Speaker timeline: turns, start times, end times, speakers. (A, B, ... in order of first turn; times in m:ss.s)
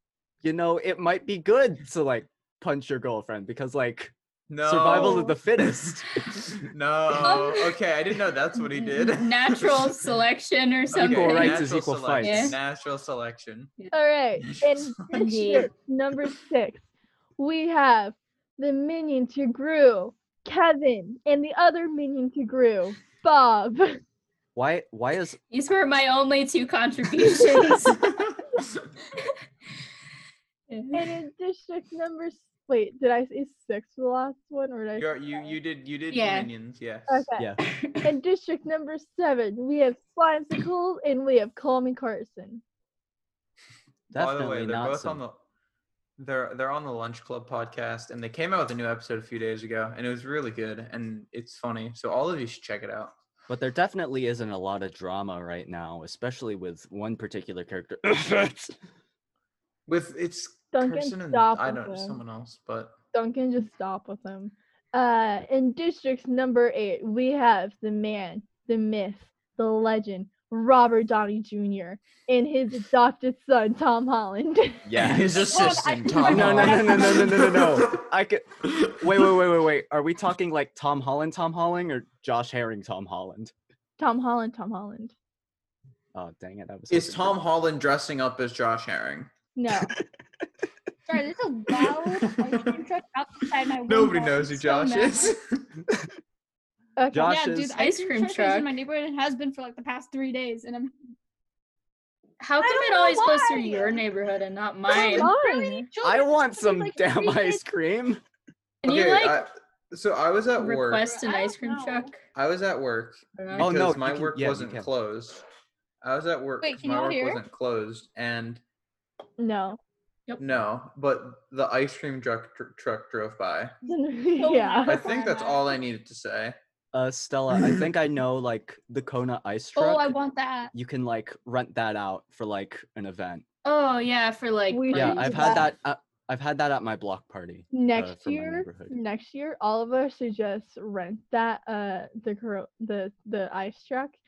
0:00.4-0:06.1 A
0:04.5-0:05.4 B
0:06.3-0:10.0 B
0:07.2-0:07.6 C
0:07.4-0:07.6 D
0:08.7-0:11.7 C
0:10.9-0:13.7 B
0:10.9-0:12.6 A
0:12.2-0:12.6 C
0:13.9-0:16.8 E
0:14.4-0:14.9 B
0:15.1-0:15.7 C
0:17.4-0:24.0 E
0:24.5-0:25.4 A
0:25.5-0:28.1 C
0:28.0-0:28.8 B
0:30.7-0:31.1 C
0:30.9-0:35.6 E
0:35.0-0:37.2 B
0:36.1-0:36.5 C
0:37.1-0:37.5 E
0:37.7-0:38.0 C
0:38.0-0:42.6 E
0:44.1-0:45.2 A
0:44.1-0:45.4 B
0:46.2-0:53.1 B
0:53.5-0:58.8 A
0:59.9-1:02.9 B
1:00.7-1:02.2 E
1:03.1-1:14.9 E
1:14.8-1:15.4 A
1:14.9-1:18.0 B
1:15.3-1:17.6 D
1:16.3-1:23.5 A
1:18.6-1:19.3 B
1:24.0-1:25.1 E
1:26.1-1:27.4 A
1:26.9-1:29.3 B
1:29.5-1:29.9 E
1:31.1-1:35.3 D
1:32.1-1:32.7 B
1:33.8-1:35.6 B
1:37.0-1:37.4 E
1:37.1-1:37.8 A
1:37.2-1:40.9 D
1:37.8-1:38.7 C
1:42.4-1:45.3 C
1:42.6-1:44.0 D
1:44.9-1:47.6 D
1:44.9-1:45.9 E
1:46.0-1:48.2 A
1:48.8-1:49.4 C
1:48.8-1:51.1 B
1:50.6-1:52.2 C
1:51.1-1:52.1 D
1:52.3-1:55.4 B
1:53.4-1:53.7 C
1:53.6-1:54.9 A
1:56.0-1:58.6 B
1:56.6-1:57.4 D
1:59.4-1:59.8 E
2:00.4-2:03.7 B
2:03.8-2:05.0 E
2:04.4-2:05.8 D
2:04.8-2:06.6 B
2:06.9-2:10.2 A
2:07.6-2:07.8 B
2:09.8-2:10.7 D
2:10.7-2:13.4 A
2:13.6-2:15.7 C
2:14.7-2:15.7 E
2:14.9-2:18.9 A
2:17.7-2:24.2 E